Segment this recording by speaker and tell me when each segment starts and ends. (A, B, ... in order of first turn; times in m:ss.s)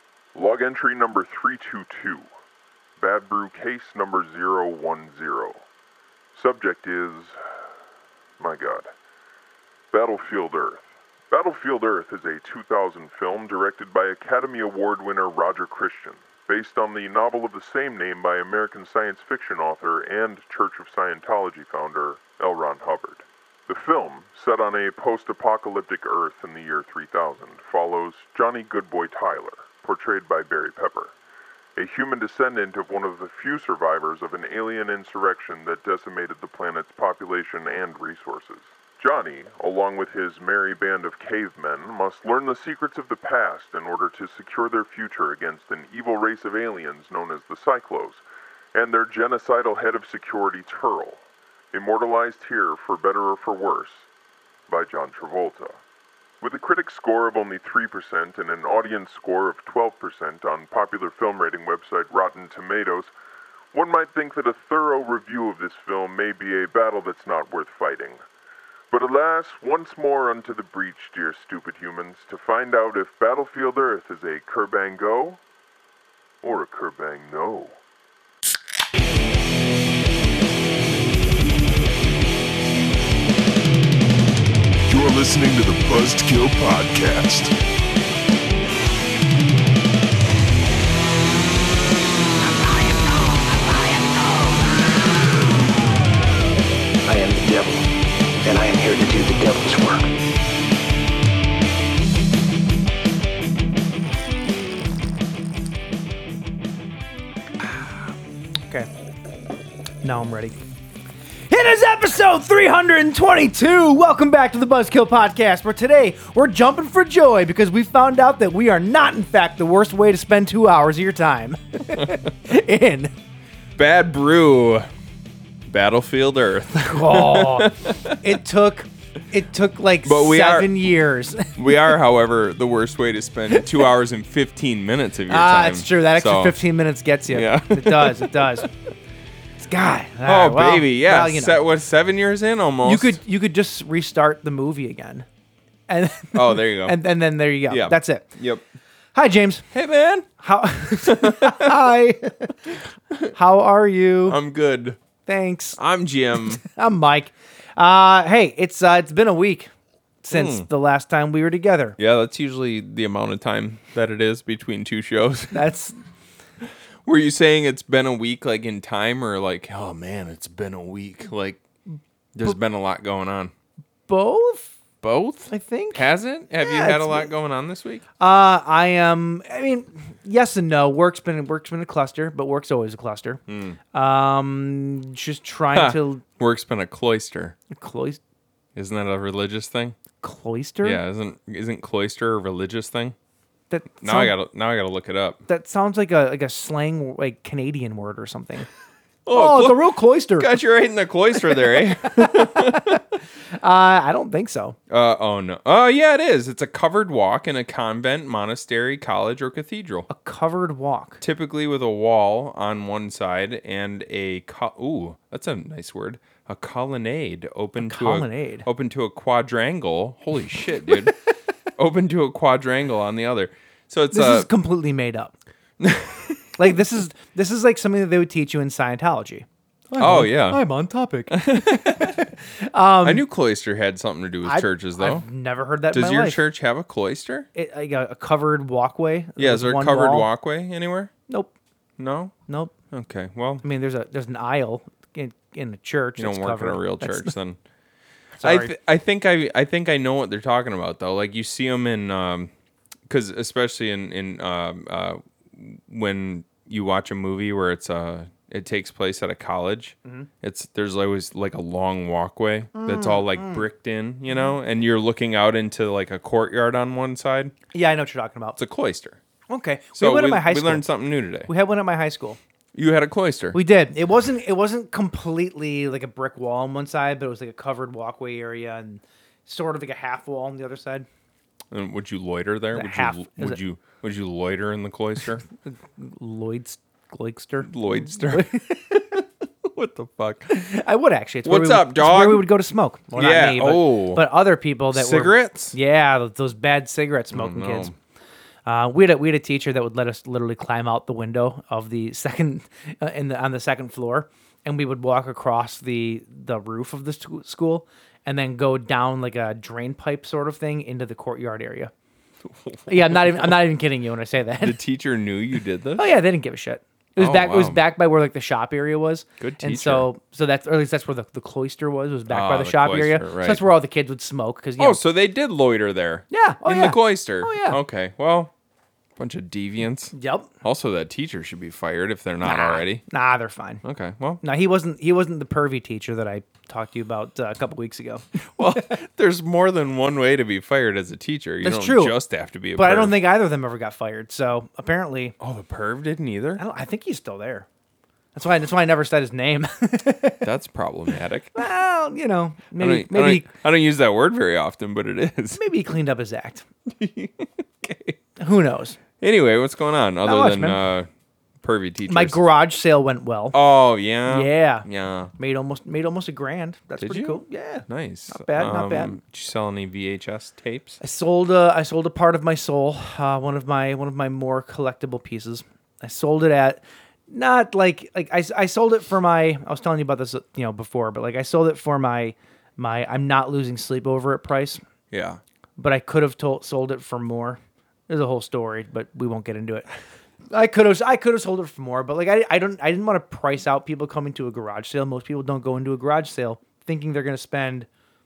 0:00.4-0:02.3 A
0:03.0-0:05.6 A
0:06.3-0:07.4 A
0:08.4-0:08.9 A
0:09.9-0:31.1 A
0:31.8-0:48.2 A
0:48.8-0:51.2 A
0:51.7-0:54.1 A
0:54.7-0:55.8 A
0:56.4-1:03.1 A
1:03.7-1:08.2 A
1:08.9-1:15.4 A
1:16.4-1:17.8 A
1:24.9-1:27.5 B
1:32.6-1:34.5 C
1:37.1-1:37.8 C
1:38.4-1:40.0 C
1:50.0-1:50.6 D
1:51.5-2:03.1 D
2:03.8-2:04.9 E
2:05.7-2:08.3 E
2:06.7-2:11.6 D
2:10.0-2:10.9 E
2:11.6-2:16.6 E
2:15.3-2:18.7 D
2:17.3-2:18.7 E
2:19.6-2:21.6 D
2:20.2-2:23.2 E
2:22.8-2:25.3 D
2:25.9-2:28.3 D
2:26.3-2:27.0 E
2:27.7-2:28.6 E
2:29.2-2:29.6 D
2:29.7-2:30.3 E
2:30.4-2:32.5 D
2:31.0-2:31.8 E
2:32.7-2:33.3 E
2:33.3-2:34.4 D
2:34.3-2:35.0 E
2:35.2-2:35.8 D
2:35.8-2:36.6 E
2:36.5-2:39.7 D
2:40.2-2:42.0 D
2:40.3-2:40.7 E
2:42.0-2:45.6 E
2:45.5-2:46.0 D
2:47.0-2:51.6 E
2:51.9-2:52.6 D
2:52.3-2:53.5 E
2:54.1-2:54.7 D
2:55.0-2:58.0 E
2:55.5-2:57.3 D
2:58.2-3:03.4 D
3:03.5-3:03.8 E
3:03.9-3:06.2 D
3:05.7-3:07.6 E
3:07.7-3:08.2 D
3:08.8-3:10.0 E
3:10.2-3:11.0 D
3:10.8-3:13.2 E
3:13.7-3:14.3 D
3:14.0-3:15.4 E
3:15.5-3:18.7 D
3:19.2-3:23.0 E
3:19.3-3:20.6 D
3:21.5-3:23.0 D
3:23.6-3:24.8 D
3:24.9-3:30.1 E
3:30.1-3:31.2 D
3:31.2-3:41.2 E
3:37.8-3:38.7 D
3:41.8-3:44.5 E
3:44.1-3:45.3 D
3:45.8-3:46.7 E
3:46.6-3:51.4 D
3:50.0-3:50.6 E
3:51.3-3:52.3 E
3:52.0-3:53.2 D
3:53.0-3:55.3 E
3:54.4-3:56.4 D
3:55.9-3:57.5 E
3:57.6-4:00.3 D
3:59.4-4:01.1 E
4:02.0-4:02.3 E
4:02.5-4:02.7 D
4:02.9-4:03.6 E
4:03.6-4:07.3 D
4:06.2-4:07.6 E
4:08.4-4:08.8 D
4:08.4-4:12.5 E
4:13.1-4:27.5 E
4:22.7-4:23.7 D
4:27.7-4:28.6 D
4:28.6-4:29.2 E
4:29.5-4:30.9 D
4:30.0-4:31.5 E
4:31.5-4:32.4 D
4:32.8-4:33.6 E
4:33.5-4:41.1 D
4:41.7-4:45.4 E
4:42.7-4:43.6 D
4:45.6-4:49.0 D
4:47.6-4:50.5 E
4:50.5-4:57.9 D
4:51.4-4:52.5 E
4:53.2-4:54.2 E
4:54.9-4:55.8 E
4:57.3-4:58.0 E
4:58.6-5:11.9 D
5:12.4-5:13.6 E
5:12.9-5:14.8 D
5:14.6-5:16.1 E
5:16.0-5:25.0 D
5:17.2-5:17.8 E
5:19.4-5:20.1 E
5:22.3-5:23.7 E
5:24.8-5:28.5 E
5:26.3-5:27.8 D
5:29.2-5:33.0 E
5:30.1-5:30.5 D
5:32.4-5:33.8 D
5:33.8-5:34.4 E
5:34.4-5:38.3 D
5:38.6-5:43.2 E
5:41.6-5:42.2 D
5:42.8-5:45.4 D
5:45.4-5:46.6 E
5:46.6-5:47.7 D
5:48.4-5:50.4 D
5:50.4-5:51.6 E
5:51.6-5:53.5 D
5:52.8-5:55.6 E
5:55.6-5:56.6 D
5:56.9-5:58.2 E
5:58.4-5:59.0 D
5:59.2-6:01.1 E
6:00.2-6:00.8 D
6:01.6-6:02.4 E
6:02.1-6:03.6 D
6:03.5-6:05.3 E
6:04.3-6:04.9 D
6:05.4-6:09.2 D
6:07.0-6:11.0 E
6:11.0-6:24.8 D
6:25.1-6:25.4 E
6:25.8-6:29.9 D
6:30.5-6:37.9 D